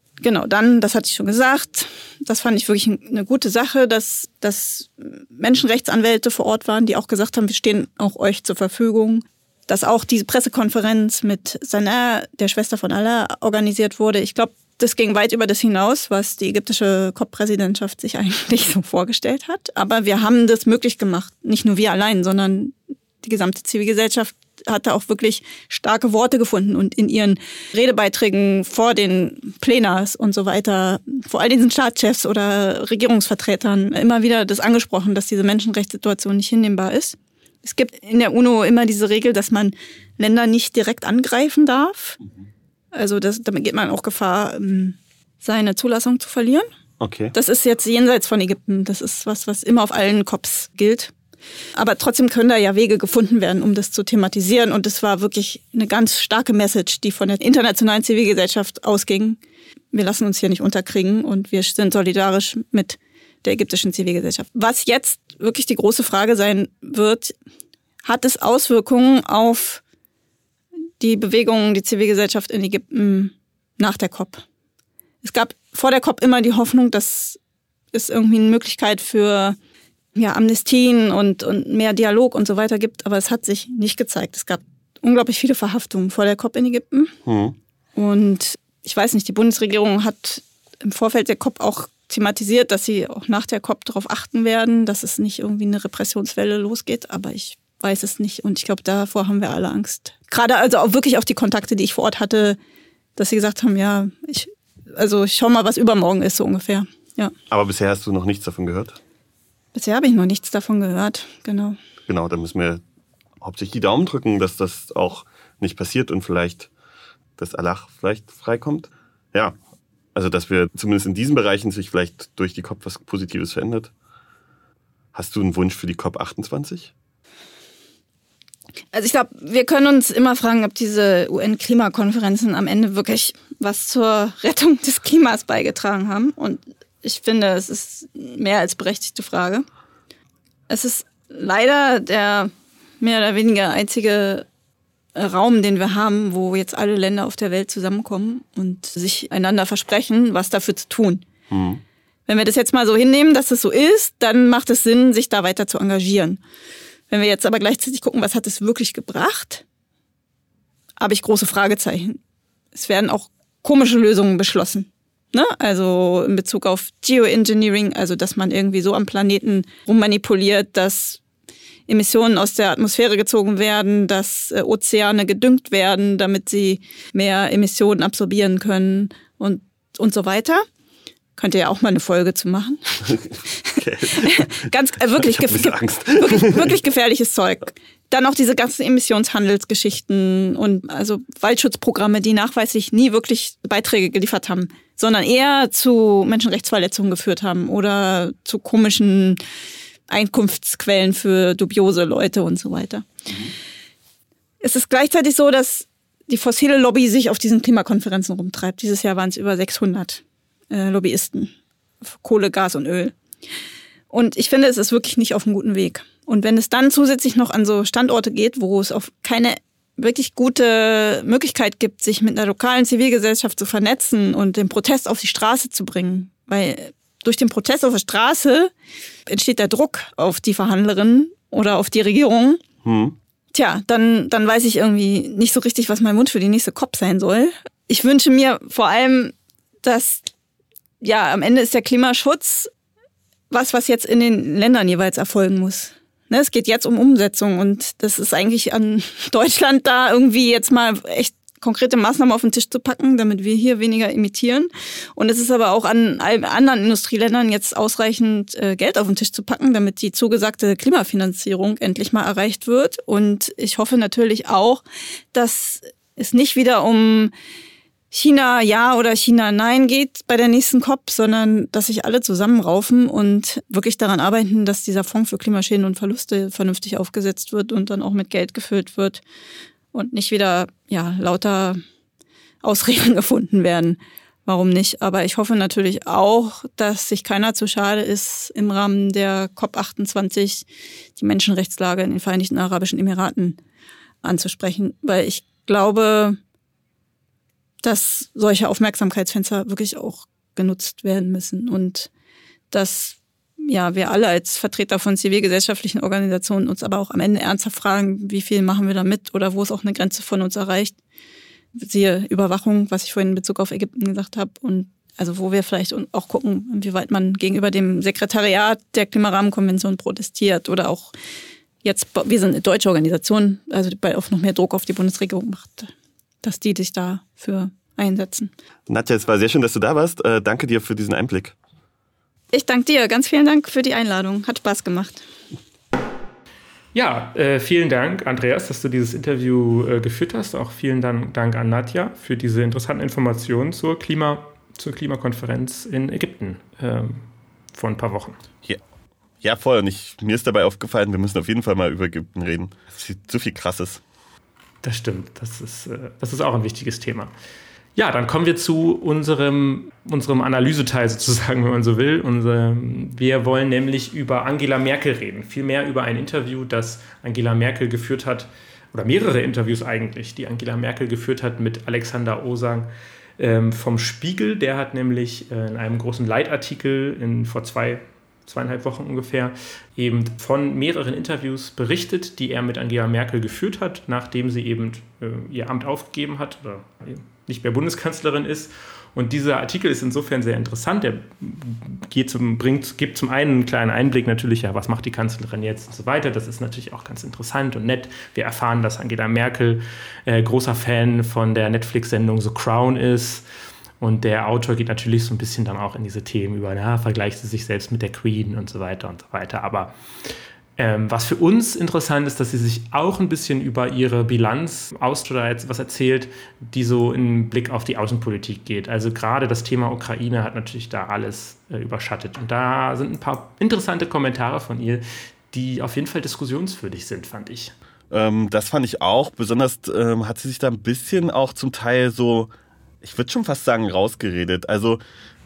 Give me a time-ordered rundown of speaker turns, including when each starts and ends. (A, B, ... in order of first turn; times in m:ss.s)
0:00.2-0:42.2 A
0:42.9-0:46.7 A
0:47.0-0:47.3 B
0:47.3-0:51.1 A
0:51.8-0:59.4 A
0:59.9-1:07.3 A
1:08.0-1:09.8 A
1:11.0-1:14.4 A
1:15.2-1:17.4 A
1:17.9-1:19.6 A
1:20.1-1:27.1 A
1:27.2-1:27.6 B
1:28.0-1:42.6 A
1:43.2-1:47.3 A
1:47.5-1:49.0 B
1:49.7-1:51.8 A
1:52.1-1:52.8 B
1:53.4-1:56.7 B
1:57.4-1:59.6 B
2:00.1-2:03.9 B
2:05.1-2:06.9 B
2:08.9-2:19.6 A
2:20.7-2:24.4 A
2:25.1-2:31.2 A
2:31.5-2:31.8 B
2:32.3-2:36.4 A
2:37.1-2:39.6 A
2:41.0-2:42.2 A
2:42.7-2:51.2 A
2:51.9-3:00.6 A
3:01.4-3:19.4 A
3:03.0-3:06.8 B
3:20.1-3:23.1 A
3:24.6-3:31.5 A
3:32.0-3:33.2 A
3:34.1-3:48.7 A
3:49.3-3:52.6 A
3:52.8-3:53.2 B
3:53.5-4:00.3 A
4:01.0-4:02.7 A
4:03.5-4:24.8 A
4:25.3-4:27.3 A
4:28.1-4:39.2 A
4:39.9-4:41.8 A
4:42.6-4:50.6 A
4:51.2-4:53.6 A
4:54.2-4:56.4 A
4:57.8-5:02.1 A
5:02.7-5:10.9 A
5:11.7-5:21.1 A
5:21.8-5:25.9 A
5:26.4-5:28.5 A
5:28.9-5:31.6 B
5:32.5-5:35.2 A
5:36.9-5:48.4 C
5:49.4-5:54.0 B
5:54.8-5:57.3 C
5:58.0-6:12.9 C
6:13.4-6:43.4 C
6:44.0-6:49.9 C
6:50.8-7:07.7 C
7:08.1-7:12.5 B
7:13.0-7:15.0 B